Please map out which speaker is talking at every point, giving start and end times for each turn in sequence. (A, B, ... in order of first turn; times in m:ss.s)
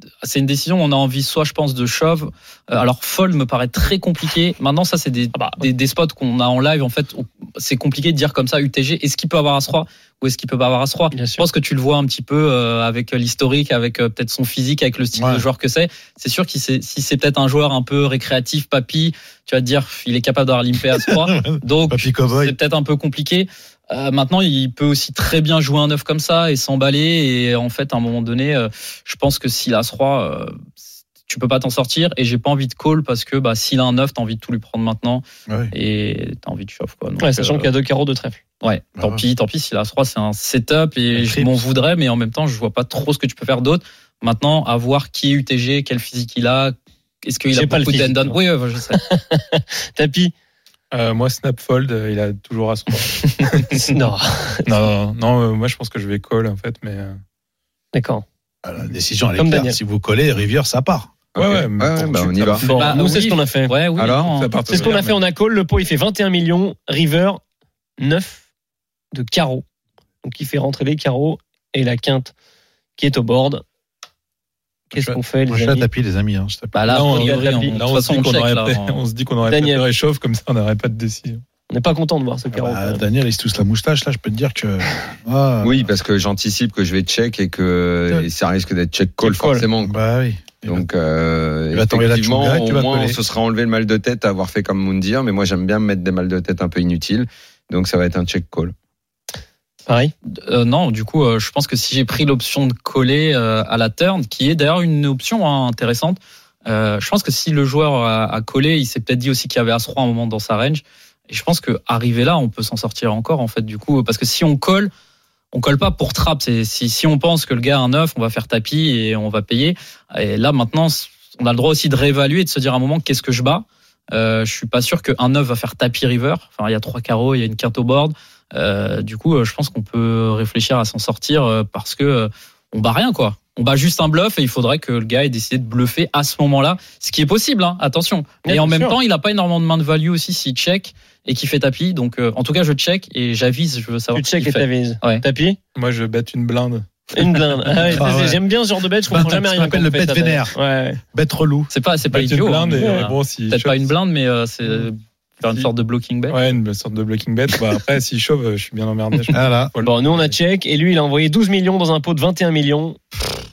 0:00.2-0:30.6 A
0:05.4-0:05.6 B
0:11.1-0:11.4 B
0:15.2-0:15.4 C
0:21.0-0:22.6 C
0:31.3-0:37.7 A
0:35.5-0:35.7 C
0:37.2-0:38.4 B
0:38.6-0:49.0 A
0:39.0-0:39.2 C
0:41.1-0:41.6 C
0:47.5-0:48.4 B
0:48.9-0:50.3 B
0:50.9-0:53.8 D
0:53.7-0:54.8 B
0:54.7-0:57.2 D
0:57.9-0:58.2 B
0:58.6-1:01.1 C
0:59.4-0:59.8 B
1:01.4-1:02.8 E
1:01.4-1:03.1 D
1:02.6-1:03.8 B
1:02.6-1:05.0 A
1:04.0-1:04.3 E
1:04.3-1:05.2 D
1:04.7-1:07.4 B
1:08.0-1:08.5 B
1:09.1-1:09.6 B
1:10.2-1:12.3 B
1:13.0-1:13.6 B
1:14.9-1:15.9 B
1:14.9-1:16.8 C
1:16.7-1:19.0 A
1:16.9-1:21.4 D
1:17.0-1:17.8 B
1:19.5-1:19.8 B
1:21.7-1:23.0 B
1:22.5-1:25.9 C
1:25.6-1:30.0 E
1:29.2-1:29.7 B
1:29.8-1:30.9 C
1:30.6-1:38.7 E
1:31.7-1:33.2 C
1:39.9-1:40.1 B
1:40.3-1:54.9 A
1:55.5-2:25.2 A
2:18.4-2:19.0 B
2:24.1-2:25.6 B
2:25.8-2:28.1 D
2:27.2-2:31.0 B
2:27.9-2:28.4 C
2:29.1-2:31.7 C
2:31.7-2:36.4 A
2:32.1-2:33.9 D
2:32.8-2:33.1 B
2:36.3-2:40.4 D
2:39.3-2:39.7 C
2:39.8-2:43.0 B